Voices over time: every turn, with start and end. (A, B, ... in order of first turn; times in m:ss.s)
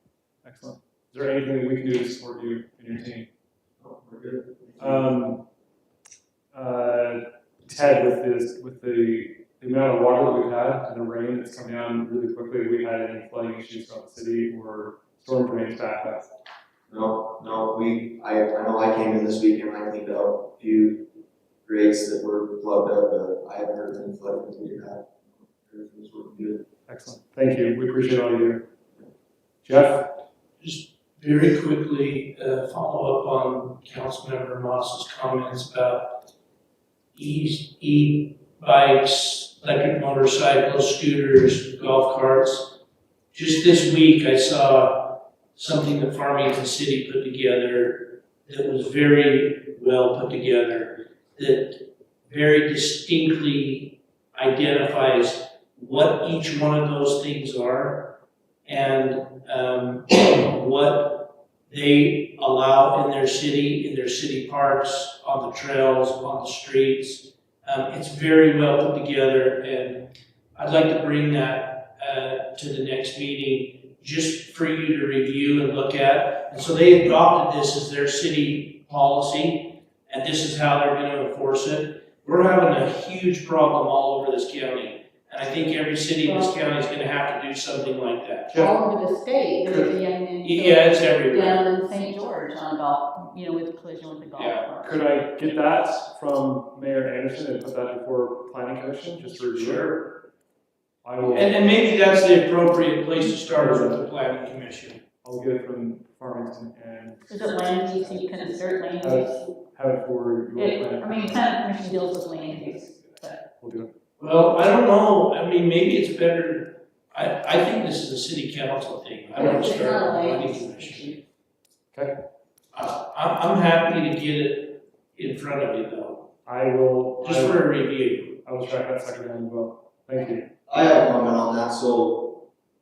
0:00.4-0:03.3 A
0:03.8-0:05.1 B
0:04.8-0:05.4 A
0:06.5-0:16.3 A
0:16.9-0:21.1 B
0:21.6-0:26.7 B
0:26.9-0:28.7 A
0:29.6-0:30.2 A
0:30.6-0:36.2 C
0:37.2-0:42.7 C
0:43.3-0:58.1 C
0:58.6-1:28.5 C
1:28.5-1:28.8 A
1:28.6-1:34.9 D
1:29.7-1:29.9 A
1:30.4-1:31.6 C
1:34.4-1:34.6 C
1:34.8-1:40.2 A
1:41.0-1:41.9 A
1:41.2-1:45.0 C
1:43.5-1:44.0 A
1:45.2-1:47.3 A
1:47.3-1:49.4 D
1:49.0-1:51.4 A
1:50.6-1:53.4 D
1:53.6-1:53.9 A
1:54.2-2:01.2 C
1:59.4-2:01.2 D
2:02.7-2:06.3 C
2:06.5-2:07.6 A
2:07.2-2:08.4 C
2:08.4-2:10.4 A
2:10.7-2:12.4 B